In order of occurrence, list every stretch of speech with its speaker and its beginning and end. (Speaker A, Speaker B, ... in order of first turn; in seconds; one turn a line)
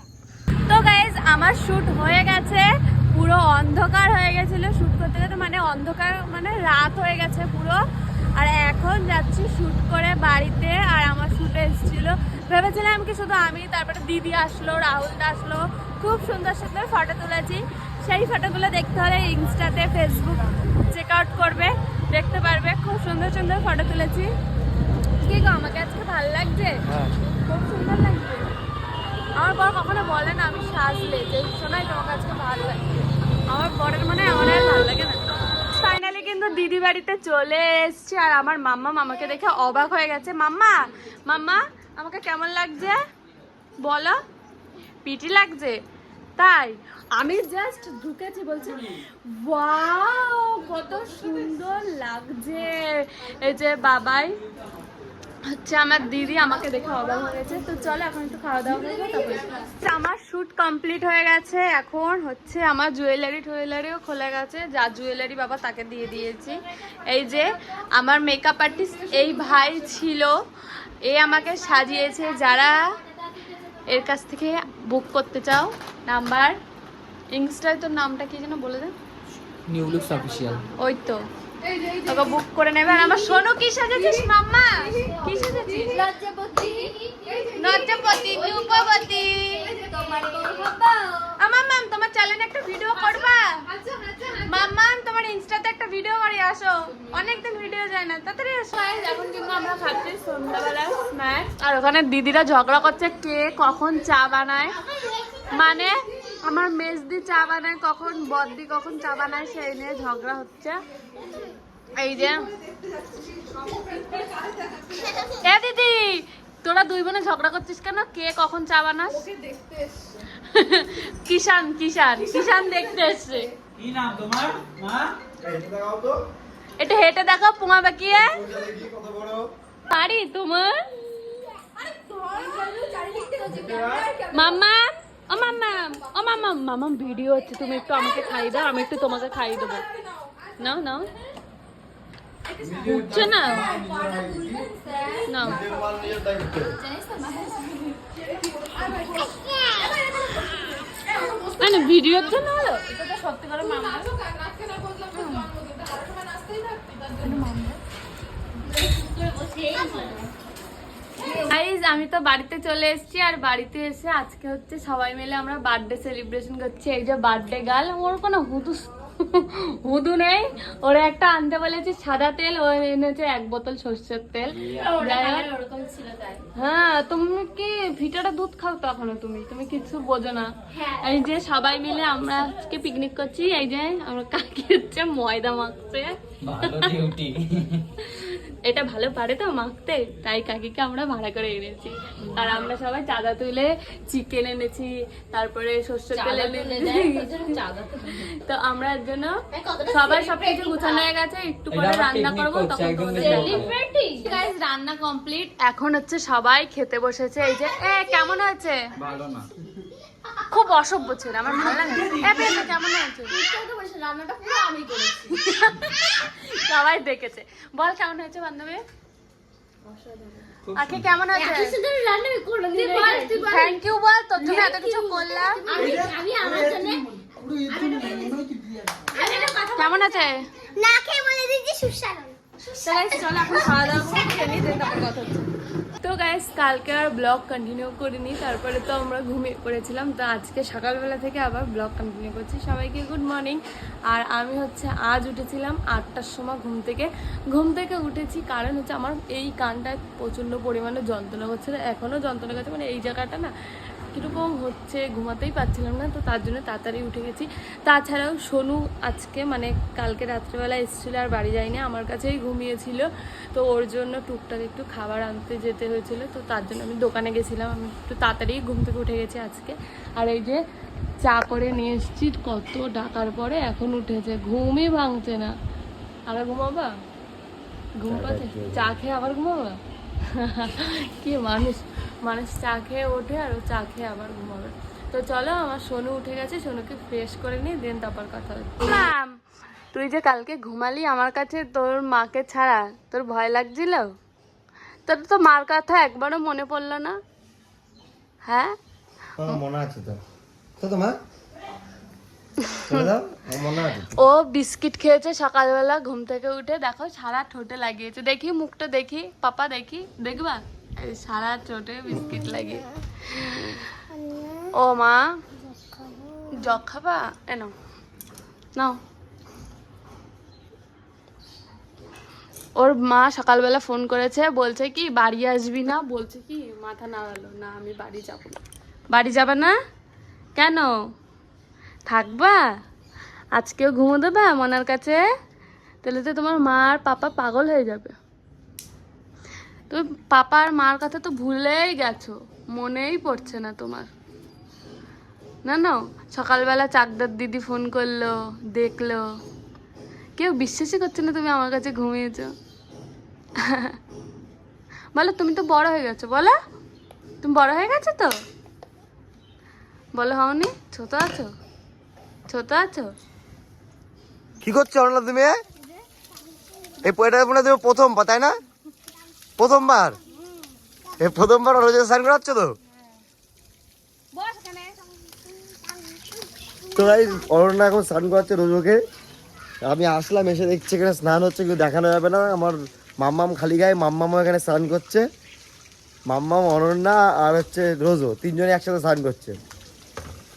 Speaker A: 0.7-7.8
Speaker A: 8.4-24.3
Speaker A: 25.2-28.5
Speaker B: 26.9-27.1
Speaker A: 29.4-43.0
Speaker A: 43.8-44.2
Speaker A: 45.0-45.8
Speaker A: 46.4-54.4
Speaker A: 55.5-70.3
Speaker A: 71.0-72.9
Speaker A: 73.9-76.6
Speaker A: 77.3-78.9
Speaker C: 79.7-80.7
Speaker A: 80.8-81.3
Speaker A: 81.9-86.1
Speaker D: 85.0-90.9
Speaker A: 87.5-90.9
Speaker A: 91.4-93.5
Speaker A: 94.4-104.8
Speaker A: 105.5-110.8
Speaker A: 112.0-112.5
Speaker A: 115.3-119.3
Speaker A: 120.4-123.5
Speaker C: 123.8-125.1
Speaker B: 125.4-126.2
Speaker A: 126.8-128.4
Speaker B: 128.2-129.5
Speaker A: 129.9-130.8
Speaker A: 132.4-132.8
Speaker D: 132.6-133.7
Speaker B: 133.4-134.1
Speaker A: 134.3-139.9
Speaker A: 140.6-141.1
Speaker C: 142.6-144.1
Speaker A: 142.8-143.9
Speaker B: 143.9-144.7
Speaker D: 144.8-145.2
Speaker A: 145.2-145.6
Speaker B: 145.4-146.8
Speaker A: 146.8-148.0
Speaker D: 149.1-150.3
Speaker A: 151.2-154.1
Speaker A: 155.1-157.8
Speaker D: 158.6-160.3
Speaker D: 161.2-161.5
Speaker A: 161.3-175.5
Speaker D: 174.8-176.5
Speaker A: 176.6-187.0
Speaker D: 180.7-181.2
Speaker C: 186.4-187.8
Speaker A: 188.0-197.6
Speaker D: 196.1-198.3
Speaker A: 198.1-208.8
Speaker D: 199.5-201.1
Speaker C: 201.7-203.8
Speaker D: 203.2-204.4
Speaker C: 209.0-209.5
Speaker A: 210.4-213.4
Speaker C: 211.7-212.7
Speaker D: 213.3-215.4
Speaker A: 215.3-218.8
Speaker D: 219.9-220.5
Speaker C: 220.7-221.0
Speaker A: 220.8-221.8
Speaker D: 221.3-223.8
Speaker A: 222.7-226.0
Speaker D: 224.4-228.5
Speaker C: 225.8-228.7
Speaker D: 229.1-230.2
Speaker A: 229.2-230.4
Speaker D: 230.8-234.8
Speaker A: 232.8-235.4
Speaker A: 236.0-253.5
Speaker A: 254.1-270.6
Speaker A: 271.2-275.5
Speaker A: 276.3-276.9
Speaker A: 278.0-279.8
Speaker B: 278.1-278.9
Speaker A: 280.3-289.3
Speaker A: 289.9-294.1
Speaker A: 295.1-297.2
Speaker A: 298.4-298.8
Speaker B: 299.4-300.2
Speaker B: 300.8-301.2
Speaker A: 302.6-303.0
Speaker B: 302.8-304.1
Speaker A: 304.2-313.9
Speaker D: 314.1-314.7
Speaker A: 314.7-315.2
Speaker D: 316.2-316.5
Speaker A: 316.5-317.7
Speaker A: 322.8-328.6
Speaker A: 329.1-329.8
Speaker A: 330.6-330.9
Speaker A: 332.1-332.6
Speaker A: 333.6-335.2
Speaker A: 336.0-338.1
Speaker A: 339.9-344.1
Speaker A: 345.6-349.3
Speaker A: 350.4-352.5
Speaker A: 353.6-354.0
Speaker A: 355.1-356.6
Speaker A: 357.4-358.3
Speaker A: 360.1-361.5
Speaker A: 362.5-363.1
Speaker B: 364.6-365.6
Speaker B: 367.0-368.5
Speaker B: 369.6-370.2
Speaker B: 371.2-372.8
Speaker D: 374.3-375.2
Speaker B: 376.9-379.0
Speaker B: 379.8-385.2
Speaker B: 386.3-389.6